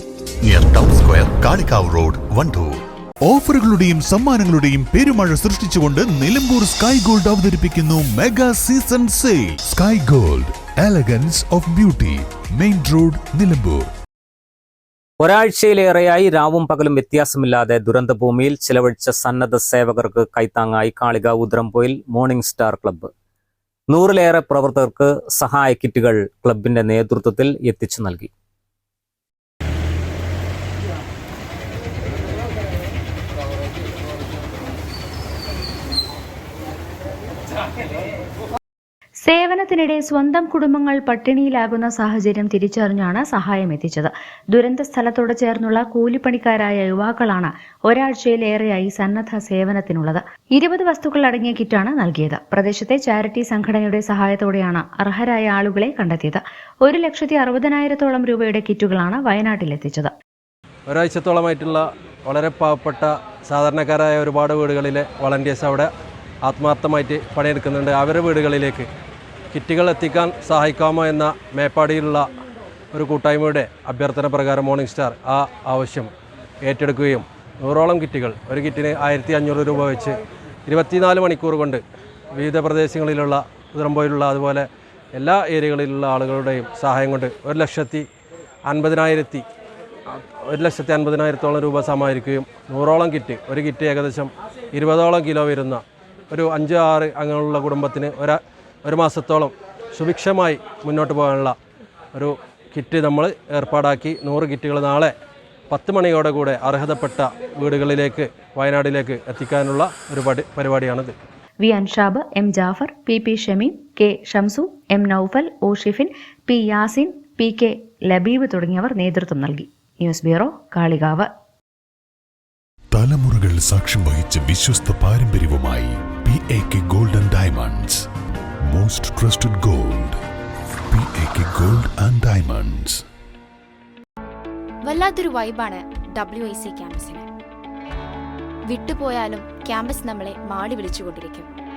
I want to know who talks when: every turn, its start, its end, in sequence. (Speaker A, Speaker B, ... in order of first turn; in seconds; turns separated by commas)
Speaker A: 0.4-2.8, Speaker B: 3.3-13.9, Speaker C: 15.2-23.1, Speaker C: 23.9-28.3, Speaker D: 39.2-60.1, Speaker E: 60.9-65.9, Speaker E: 66.4-68.9, Speaker E: 69.5-72.3, Speaker E: 72.9-76.1, Speaker E: 76.7-81.8, Speaker E: 82.3-84.7, Speaker E: 85.2-88.0, Speaker E: 88.7-89.4, Speaker E: 90.1-101.5, Speaker E: 102.2-105.1, Speaker E: 105.7-111.1, Speaker D: 111.6-121.3, Speaker B: 122.9-128.1, Speaker B: 128.7-130.2, Speaker B: 130.9-133.0, Speaker F: 134.8-137.2, Speaker F: 138.7-141.5